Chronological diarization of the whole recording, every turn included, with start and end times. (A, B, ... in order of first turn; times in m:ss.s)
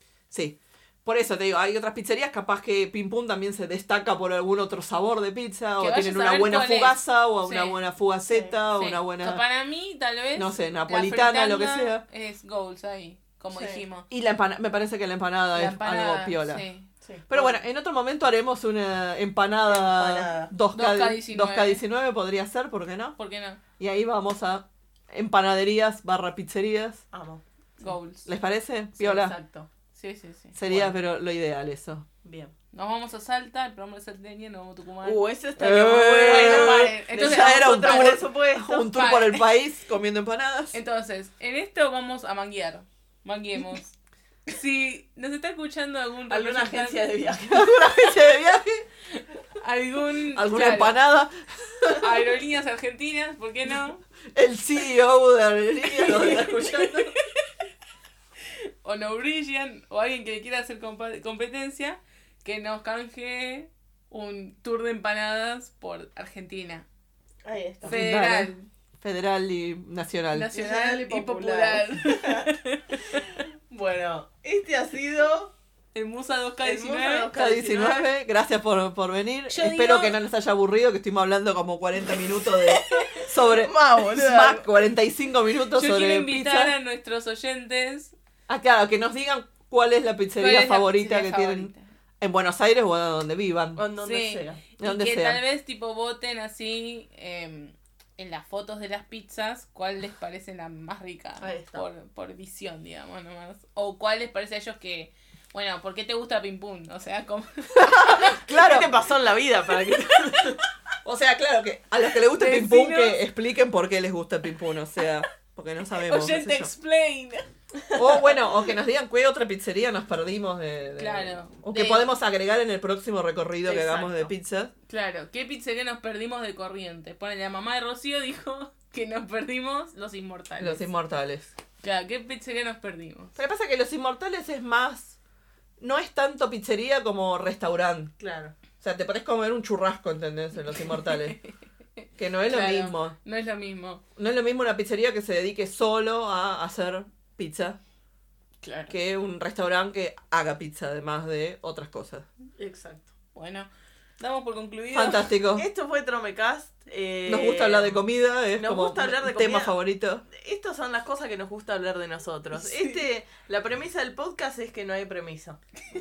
0:00.3-0:09.4 A
0:05.8-0:07.8 B
0:08.2-0:08.6 C
0:08.7-0:14.1 B
0:10.4-0:12.0 A
0:13.5-0:13.8 C
0:14.1-0:16.6 A
0:15.5-0:16.9 B
0:17.0-0:17.6 C
0:17.3-0:23.2 A
0:19.7-0:20.5 C
0:20.7-0:21.8 B
0:23.2-0:23.6 B
0:23.8-0:27.0 A
0:27.1-0:27.4 C
0:27.8-0:28.3 B
0:28.3-0:29.4 A
0:29.0-0:29.7 C
0:29.9-0:30.6 B
0:30.6-0:32.0 A
0:30.7-0:30.9 C
0:32.2-0:32.5 C
0:32.7-0:35.2 B
0:35.0-0:38.9 C
0:35.6-0:40.8 A
0:36.2-0:38.2 B
0:38.9-0:39.4 B
0:40.7-0:43.9 B
0:44.5-0:47.1 B
0:46.3-0:47.6 C
0:47.4-0:48.8 A
0:49.1-0:51.0 B
0:50.3-0:52.1 A
0:52.0-0:54.0 B
0:54.3-0:57.2 A
0:55.9-0:57.5 B
0:58.5-1:06.9 B
1:07.4-1:08.0 C
1:07.8-1:10.5 A
1:07.9-1:08.7 B
1:10.3-1:13.4 B
1:10.5-1:12.5 C
1:13.1-1:15.5 C
1:15.9-1:17.3 B
1:16.6-1:18.1 C
1:17.3-1:26.7 A
1:19.5-1:20.2 B
1:23.4-1:24.7 C
1:25.7-1:28.2 B
1:28.5-1:33.8 A
1:30.4-1:31.9 B
1:33.8-1:34.6 C
1:34.0-1:48.4 B
1:34.8-1:35.4 A
1:41.4-1:41.9 C
1:47.7-1:48.9 A
1:48.4-1:50.6 C
1:51.0-1:56.7 A
1:52.3-1:53.2 B
1:55.9-1:57.5 B
1:57.8-1:58.4 C
1:58.0-2:04.7 A
2:01.0-2:02.1 B
2:03.6-2:04.3 C
2:04.9-2:10.9 B
2:10.6-2:11.5 A
2:11.8-2:13.4 B
2:13.4-2:15.2 A
2:15.8-2:18.1 A
2:18.2-2:18.5 C
2:18.8-2:21.4 A
2:20.8-2:24.0 B
2:22.2-2:23.2 A
2:24.2-2:27.8 A
2:28.9-2:32.3 A
2:32.6-2:33.1 C
2:33.4-2:35.3 B
2:34.9-2:35.7 A
2:35.6-2:38.0 C
2:37.3-2:40.2 A
2:38.6-2:39.7 C
2:40.3-2:45.6 C
2:42.6-2:43.0 B